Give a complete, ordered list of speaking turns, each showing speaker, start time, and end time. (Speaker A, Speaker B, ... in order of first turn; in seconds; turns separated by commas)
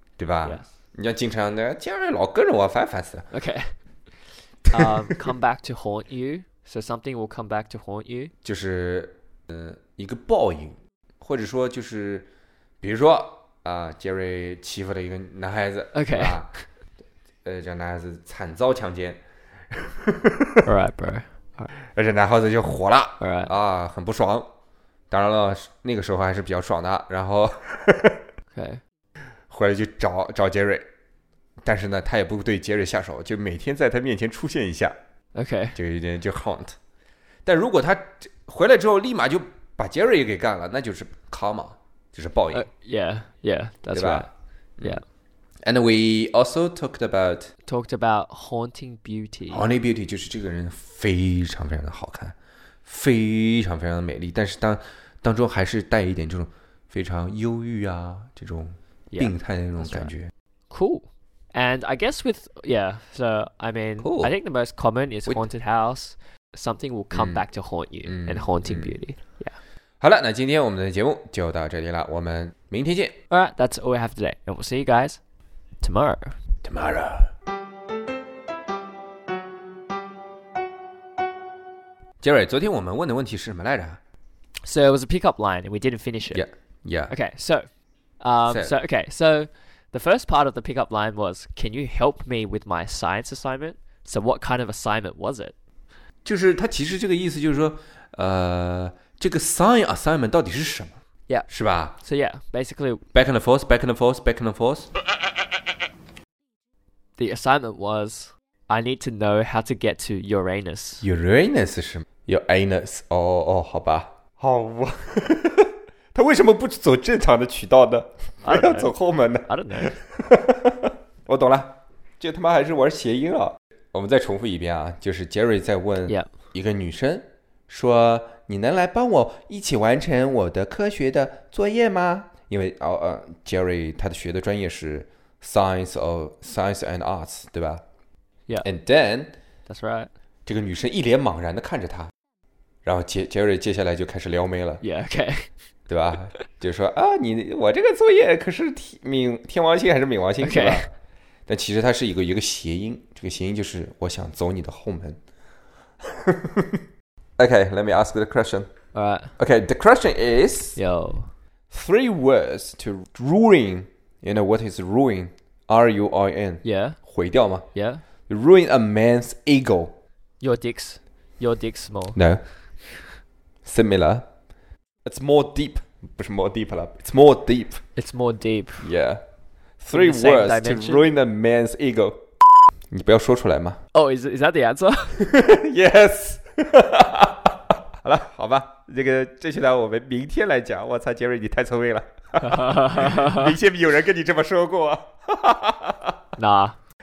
Speaker A: 0.2-3.3, Speaker B: 3.3-3.7, Speaker B: 4.7-8.3, Speaker A: 4.9-5.1, Speaker A: 8.4-12.3, Speaker A: 12.8-16.5, Speaker B: 15.9-16.6, Speaker A: 17.4-20.7, Speaker B: 20.6-21.7, Speaker A: 21.9-24.5, Speaker B: 23.2-23.5, Speaker A: 25.1-28.2, Speaker B: 28.5-28.8, Speaker A: 29.5-30.9, Speaker A: 31.6-35.0, Speaker B: 35.3-35.8, Speaker A: 35.8-36.8, Speaker A: 37.5-42.7, Speaker B: 42.5-44.3, Speaker A: 43.9-44.3, Speaker A: 45.6-47.5, Speaker B: 47.6-49.6, Speaker A: 49.5-60.3, Speaker B: 59.1-60.1, Speaker B: 60.7-69.5, Speaker A: 64.0-64.3, Speaker A: 67.1-67.4, Speaker A: 68.1-69.0, Speaker A: 70.0-73.2, Speaker B: 73.3-75.2, Speaker B: 75.8-76.4, Speaker A: 76.6-77.3, Speaker A: 82.2-84.0, Speaker B: 84.6-86.4, Speaker A: 86.3-87.1, Speaker B: 87.1-87.7, Speaker B: 88.2-95.5, Speaker A: 88.5-88.8, Speaker A: 96.2-102.0, Speaker B: 101.3-103.0, Speaker A: 103.1-104.9, Speaker B: 107.2-111.0, Speaker A: 111.0-137.8, Speaker B: 118.4-118.9, Speaker B: 119.5-120.0, Speaker A: 138.6-139.4, Speaker B: 139.7-140.1, Speaker A: 140.5-142.1, Speaker A: 142.8-144.8, Speaker B: 144.8-145.5, Speaker A: 145.9-150.9, Speaker B: 150.4-150.9, Speaker A: 151.5-155.2, Speaker A: 156.1-156.8, Speaker A: 157.4-158.7, Speaker B: 158.9-159.4, Speaker A: 159.4-160.8, Speaker B: 160.8-161.3, Speaker A: 161.7-167.7, Speaker B: 166.6-167.0, Speaker B: 167.7-168.0, Speaker A: 168.3-170.0, Speaker B: 170.4-172.2, Speaker A: 172.2-172.4, Speaker A: 173.7-174.3, Speaker A: 175.1-177.8, Speaker B: 178.0-178.9, Speaker A: 178.8-179.2, Speaker A: 179.8-182.3, Speaker B: 179.9-181.1, Speaker A: 182.9-183.8, Speaker B: 183.9-185.3, Speaker A: 185.2-196.2, Speaker B: 192.5-193.4, Speaker B: 196.4-196.8